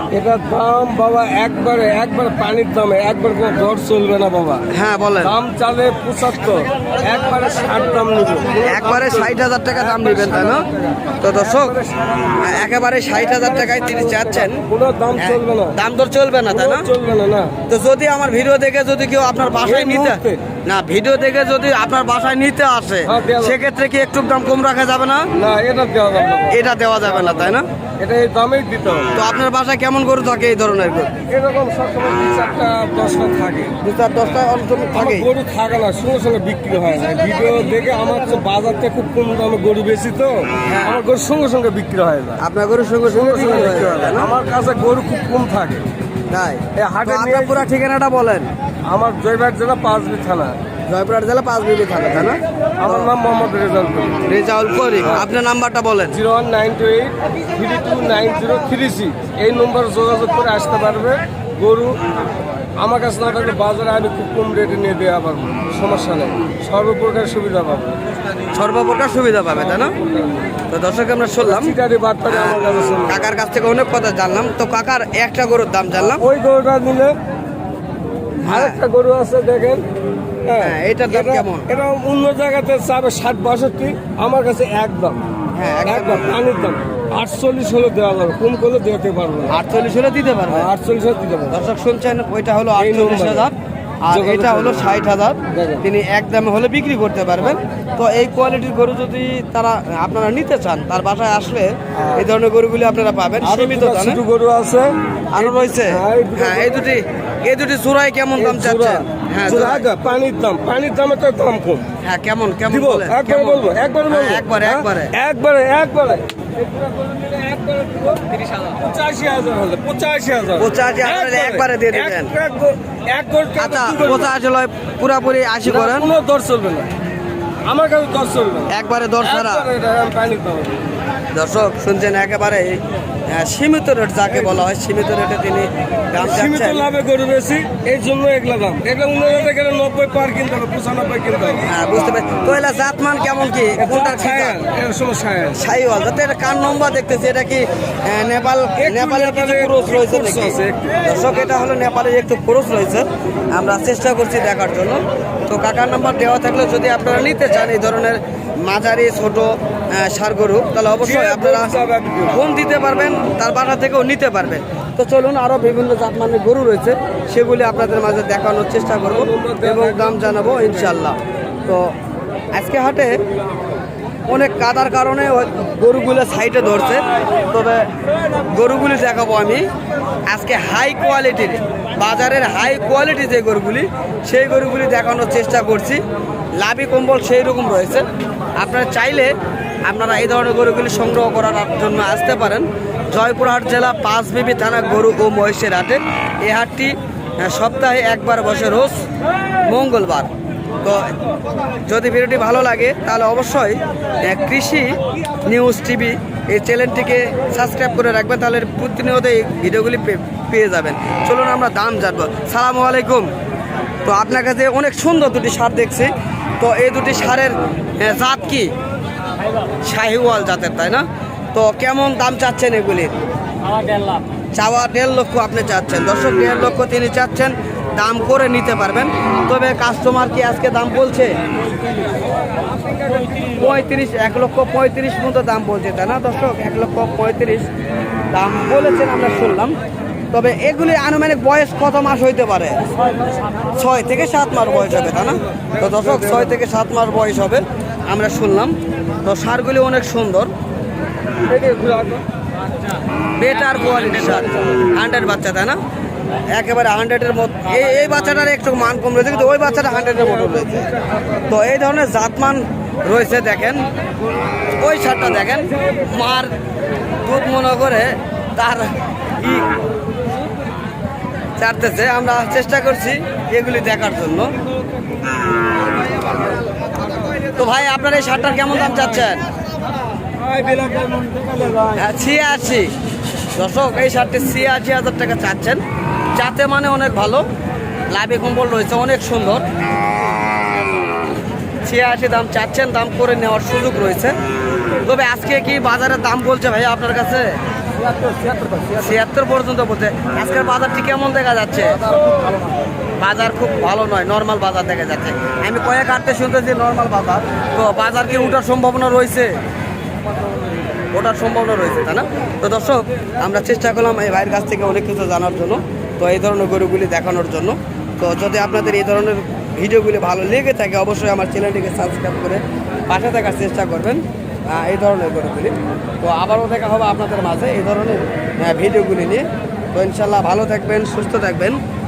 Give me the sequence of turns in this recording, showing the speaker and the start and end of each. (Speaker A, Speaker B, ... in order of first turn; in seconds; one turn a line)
Speaker A: 0.1-4.7
Speaker B: 4.7-5.3
Speaker A: 5.2-15.8
Speaker B: 8.6-10.7
Speaker B: 11.2-11.8
Speaker B: 12.4-14.6
Speaker B: 15.2-16.9
Speaker A: 16.5-17.5
Speaker B: 17.7-25.3
Speaker A: 19.6-20.4
Speaker A: 23.1-23.6
Speaker A: 25.4-29.1
Speaker B: 26.5-27.6
Speaker B: 29.1-31.1
Speaker A: 31.3-33.8
Speaker B: 33.8-35.3
Speaker A: 34.9-42.4
Speaker B: 40.7-41.0
Speaker B: 42.4-44.3
Speaker A: 43.1-45.8
Speaker B: 46.3-48.5
Speaker A: 46.8-47.6
Speaker A: 48.9-50.6
Speaker B: 50.9-53.1
Speaker A: 52.8-54.2
Speaker B: 54.3-56.2
Speaker A: 56.1-62.0
Speaker A: 62.8-68.0
Speaker B: 68.5-69.9
Speaker A: 69.8-70.5
Speaker B: 70.7-71.7
Speaker A: 71.4-73.3
Speaker B: 72.3-76.2
Speaker A: 76.0-77.1
Speaker A: 78.4-79.8
Speaker B: 78.4-78.8
Speaker A: 80.5-85.2
Speaker B: 80.6-81.7
Speaker B: 85.6-86.4
Speaker A: 85.8-89.6
Speaker B: 89.5-90.7
Speaker A: 90.5-91.6
Speaker B: 91.5-104.2
Speaker A: 92.8-93.5
Speaker A: 94.1-94.9
Speaker A: 95.5-95.9
Speaker A: 103.4-106.8
Speaker B: 105.3-109.9
Speaker A: 108.3-111.9
Speaker B: 112.0-115.1
Speaker A: 112.7-124.3
Speaker B: 120.6-122.3
Speaker B: 123.6-126.1
Speaker A: 125.6-126.9
Speaker A: 127.7-130.8
Speaker B: 128.7-129.7
Speaker B: 131.3-136.9
Speaker A: 136.2-141.7
Speaker B: 141.7-144.6
Speaker A: 143.8-145.6
Speaker B: 145.5-161.7
Speaker A: 148.8-151.0
Speaker A: 161.0-162.4
Speaker B: 162.3-171.9
Speaker A: 169.0-171.0
Speaker B: 172.6-173.2
Speaker B: 174.3-177.8
Speaker B: 178.4-179.7
Speaker B: 180.3-186.0
Speaker B: 186.6-199.0
Speaker B: 199.7-200.3
Speaker B: 200.8-201.1
Speaker B: 201.8-213.3
Speaker B: 214.1-218.7
Speaker B: 219.8-223.2
Speaker B: 224.6-231.4
Speaker A: 232.8-233.8
Speaker B: 233.5-237.7
Speaker B: 238.3-239.8
Speaker B: 240.3-242.8
Speaker B: 243.7-250.5
Speaker A: 245.7-246.6
Speaker A: 251.5-252.2
Speaker B: 253.4-255.8
Speaker B: 256.5-260.9
Speaker A: 259.8-261.2
Speaker B: 261.5-263.9
Speaker B: 264.8-266.5
Speaker B: 267.2-269.7
Speaker B: 271.6-274.5
Speaker B: 277.6-279.4
Speaker A: 280.5-281.8
Speaker B: 281.9-282.9
Speaker B: 283.6-285.8
Speaker B: 286.4-287.4
Speaker B: 288.1-289.6
Speaker B: 291.8-294.3
Speaker B: 295.0-297.6
Speaker A: 298.1-298.9
Speaker B: 298.9-302.1
Speaker B: 303.2-309.6
Speaker B: 311.1-331.8